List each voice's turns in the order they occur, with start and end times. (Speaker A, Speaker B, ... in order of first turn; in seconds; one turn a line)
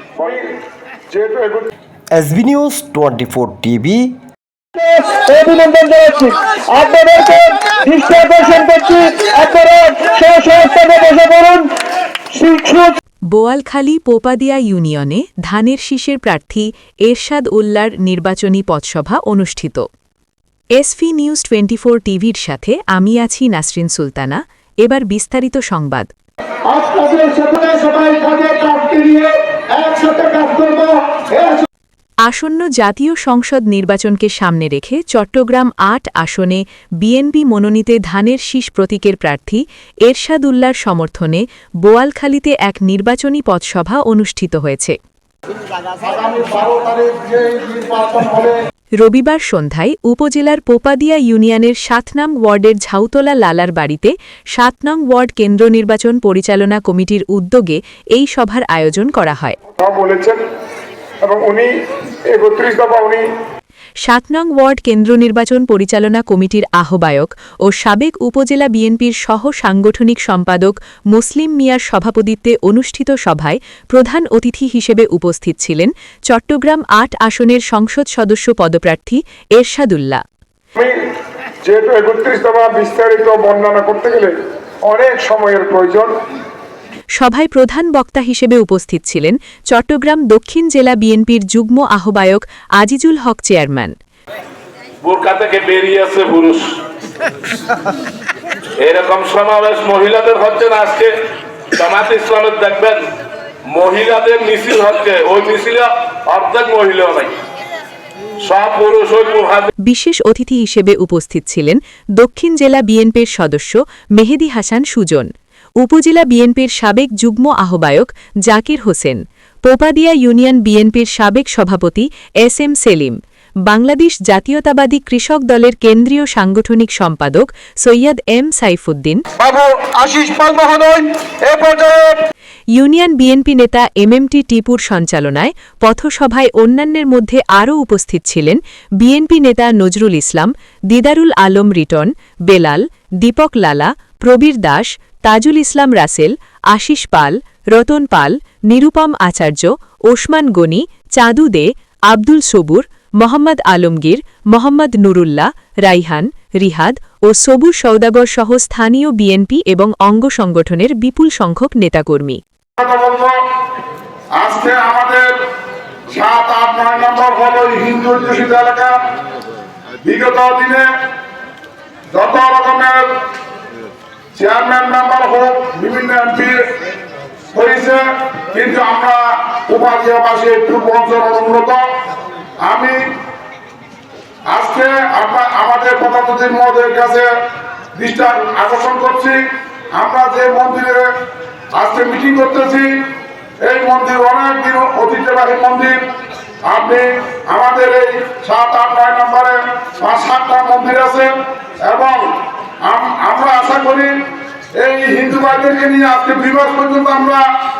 Speaker A: 1.1-1.7
Speaker B: 2.1-4.2
Speaker C: 4.7-11.7
Speaker C: 12.3-13.0
Speaker D: 13.3-19.9
Speaker D: 20.7-26.1
Speaker C: 26.7-31.6
Speaker D: 32.2-45.0
Speaker A: 46.0-48.5
Speaker D: 49.0-59.6
Speaker A: 59.8-60.4
Speaker A: 61.2-61.7
Speaker A: 62.3-63.2
Speaker D: 64.0-80.2
Speaker A: 81.6-84.3
Speaker A: 84.9-86.1
Speaker D: 87.2-93.9
Speaker E: 95.0-96.7
Speaker E: 98.8-101.1
Speaker E: 101.7-103.0
Speaker E: 103.7-107.3
Speaker E: 108.4-109.7
Speaker D: 109.8-115.3
Speaker D: 115.8-129.2
Speaker C: 129.4-131.0
Speaker D: 132.7-162.4
Speaker A: 162.8-163.3
Speaker A: 164.4-165.3
Speaker A: 166.1-168.9
Speaker A: 170.0-170.8
Speaker A: 172.1-173.0
Speaker A: 174.3-176.6
Speaker A: 177.5-181.8
Speaker A: 182.6-183.0
Speaker A: 184.5-187.3
Speaker A: 187.9-189.4
Speaker A: 189.9-191.1
Speaker A: 191.7-192.9
Speaker A: 193.6-196.0
Speaker A: 196.7-201.3
Speaker A: 201.8-202.2
Speaker A: 202.8-204.1
Speaker A: 204.8-207.4